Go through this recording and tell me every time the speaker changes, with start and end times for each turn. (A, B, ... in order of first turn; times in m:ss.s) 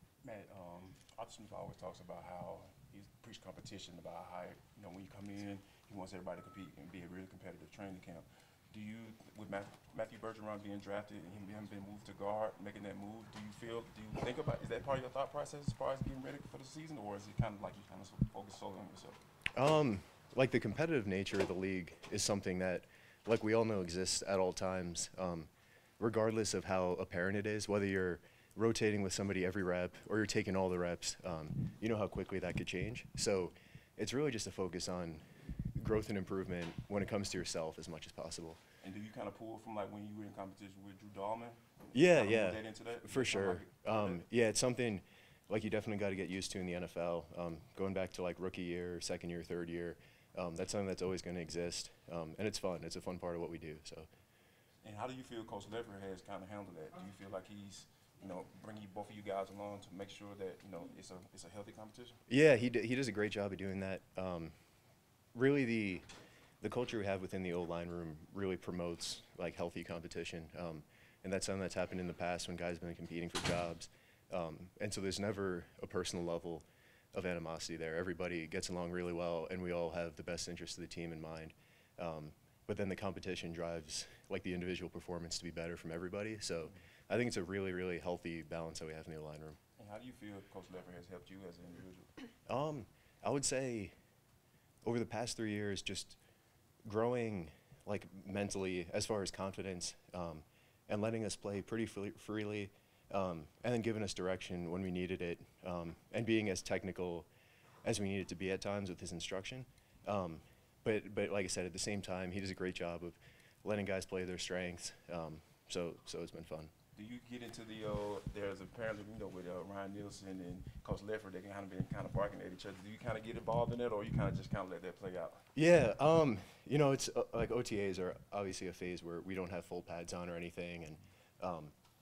0:00.2-0:19.2 A
0:19.5-0:38.6 B
0:38.8-0:44.2 A
0:41.9-0:54.1 B
0:54.8-1:02.2 A
1:02.3-1:04.6 B
1:05.3-1:06.1 B
1:06.6-1:29.6 B
1:29.8-1:32.1 A
1:32.5-1:34.0 B
1:34.8-1:36.2 B
1:36.8-1:47.3 B
1:47.8-1:56.7 B
1:56.9-2:05.4 A
2:05.5-2:11.7 B